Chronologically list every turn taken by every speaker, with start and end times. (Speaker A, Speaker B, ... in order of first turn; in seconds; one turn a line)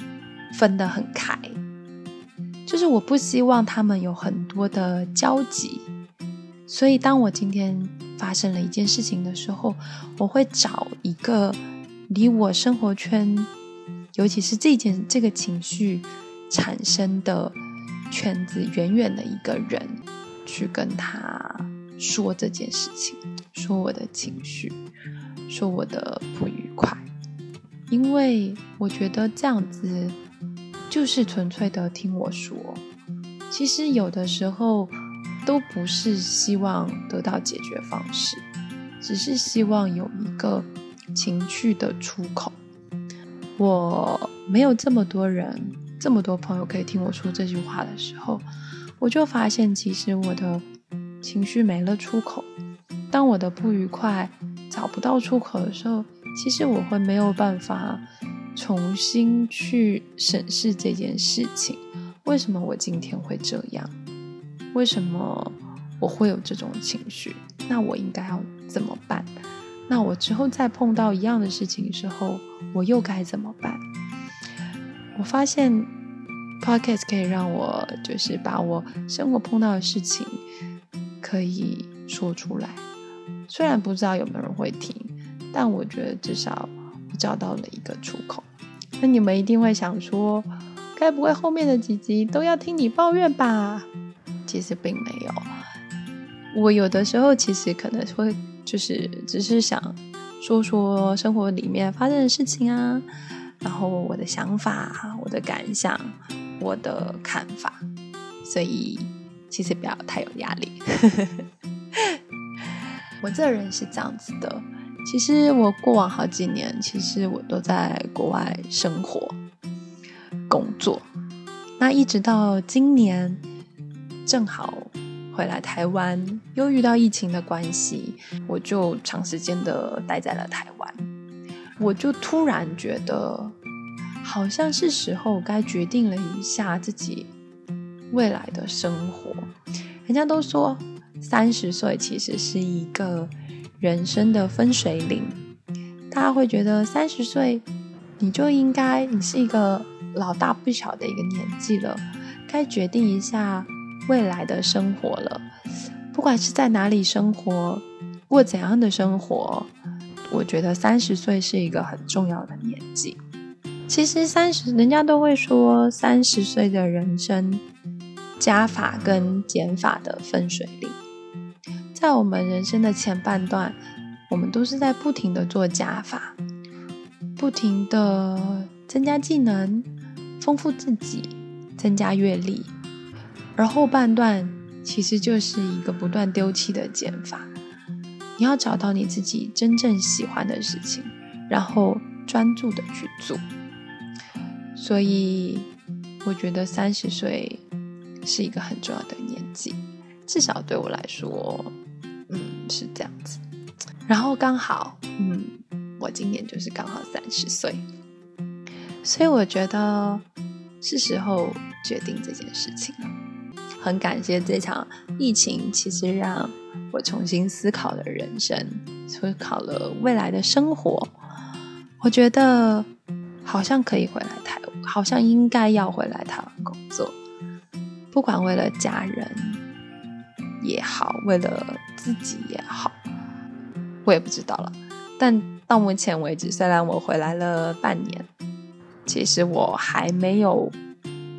Speaker A: 0.5-1.6
Speaker A: 2.7-5.9
Speaker A: 6.7-13.5
Speaker A: 14.2-17.6
Speaker A: 18.1-24.8
Speaker A: 25.5-27.1
Speaker A: 27.9-30.2
Speaker A: 30.9-32.8
Speaker A: 33.5-38.4
Speaker A: 39.0-42.5
Speaker A: 43.6-48.5
Speaker A: 49.0-50.6
Speaker A: 51.2-52.5
Speaker A: 53.1-58.0
Speaker A: 58.5-63.9
Speaker A: 64.7-69.3
Speaker A: 69.9-73.8
Speaker A: 75.2-75.9
Speaker A: 76.6-80.4
Speaker A: 81.2-82.8
Speaker A: 83.5-88.5
Speaker A: 89.0-93.9
Speaker A: 94.5-95.5
Speaker A: 96.5-103.1
Speaker A: 103.6-107.8
Speaker A: 108.4-112.2
Speaker A: 113.2-119.4
Speaker A: 120.5-121.0
Speaker A: 121.8-123.4
Speaker A: 124.3-131.1
Speaker A: 131.8-133.6
Speaker A: 134.2-137.3
Speaker A: 138.1-139.5
Speaker A: 140.1-145.3
Speaker A: 146.1-147.6
Speaker A: 148.2-155.5
Speaker A: 156.1-159.7
Speaker A: 160.3-163.2
Speaker A: 163.9-167.6
Speaker A: 168.4-171.0
Speaker A: 171.9-173.8
Speaker A: 174.3-176.4
Speaker A: 177.4-179.9
Speaker A: 180.4-182.7
Speaker A: 183.6-187.5
Speaker A: 188.4-193.4
Speaker A: 194.8-195.7
Speaker A: 196.2-197.6
Speaker A: 198.2-201.7
Speaker A: 202.3-203.4
Speaker A: 204.1-207.8
Speaker A: 209.0-210.2
Speaker A: 210.8-213.1
Speaker A: 213.8-221.1
Speaker A: 222.0-222.9
Speaker A: 223.4-227.2
Speaker A: 228.1-229.6
Speaker A: 230.6-233.0
Speaker A: 234.1-238.3
Speaker A: 239.1-240.8